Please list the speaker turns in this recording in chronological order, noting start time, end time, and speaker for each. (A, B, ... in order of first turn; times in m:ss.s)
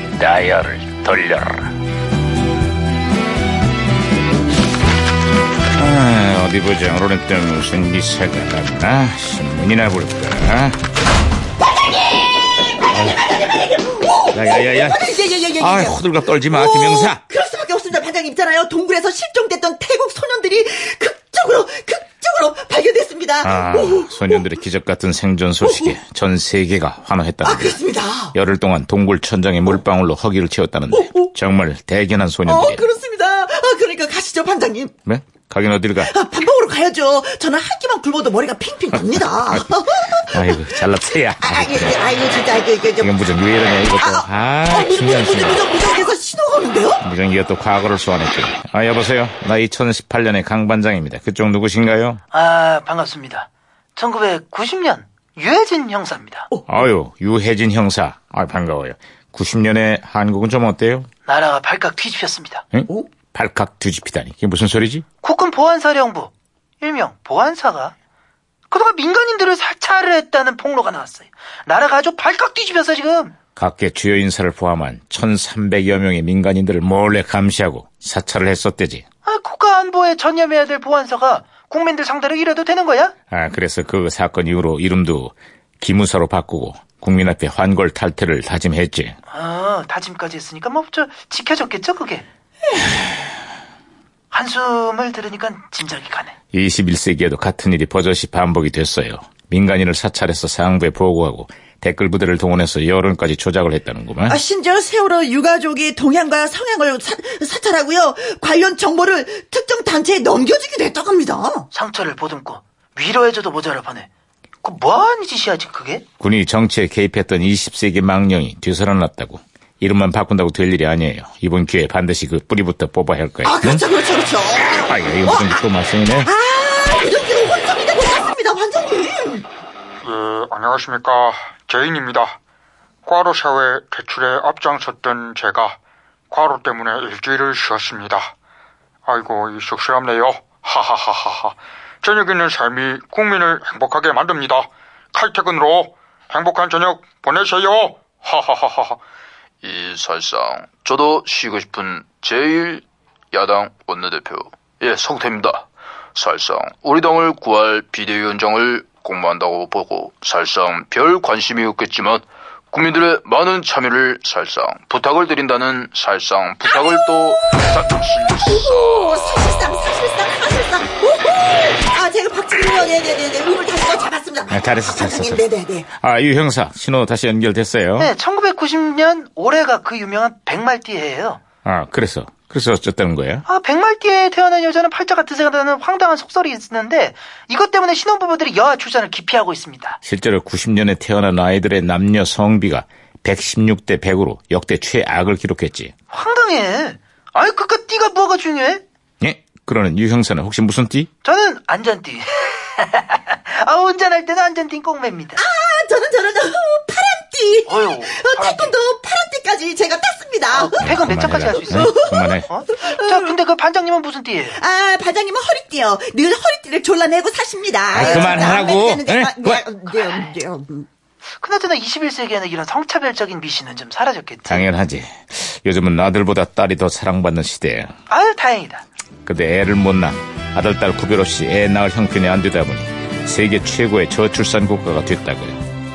0:00.2-0:01.7 A
0:05.7-0:10.8 A
0:12.6-0:24.5 B
0:12.9-0:13.3 A
0:14.3-0:17.2 A
0:23.4-0:27.8 A
0:25.6-0:26.0 B
0:27.4-0:28.4 B
0:28.3-0:32.8 A
0:30.9-0:31.3 B
0:32.4-0:35.0 B
0:35.1-0:36.1 A
0:36.0-0:43.1 B
0:38.9-0:42.0 A
0:43.0-0:45.6 A
0:44.0-0:47.0 B
0:47.0-0:52.2 A
0:52.3-0:56.5 C
0:56.7-1:01.1 A
1:01.3-1:02.6 C
1:02.7-1:05.0 A
1:05.2-1:08.0 C
1:08.7-1:13.3 C
1:13.6-1:19.0 A
1:19.2-1:23.1 C
1:23.3-1:29.2 A
1:29.3-1:32.3 C
1:34.3-1:36.4 C
1:36.5-1:44.4 A
1:44.3-1:51.7 B
1:51.7-1:54.1 C
1:54.6-1:56.0 C
1:56.2-2:03.8 A
2:03.4-2:05.6 B
2:04.6-2:06.3 A
2:06.2-2:09.5 B
2:10.0-2:12.4 D
2:13.0-2:15.8 D
2:16.3-2:18.3 D
2:19.1-2:29.0 D
2:29.6-2:49.4 E
2:48.5-2:55.9 B
2:54.5-2:58.1 A
2:58.0-3:01.4 C
3:01.6-3:03.4 A
3:03.5-3:10.0 C
3:10.0-3:15.9 A
3:16.1-3:18.8 C
3:19.2-3:21.1 A
3:21.2-3:25.4 C
3:25.4-3:31.0 B
3:27.7-3:28.7 C
3:30.5-3:34.6 C
3:30.8-3:32.5 A
3:31.5-3:33.3 B
3:34.6-3:40.9 B
3:37.9-3:39.6 A
3:38.0-3:38.6 C
3:41.4-3:44.6 C
3:44.5-3:47.9 A
3:48.1-3:48.8 C
3:49.2-3:55.6 A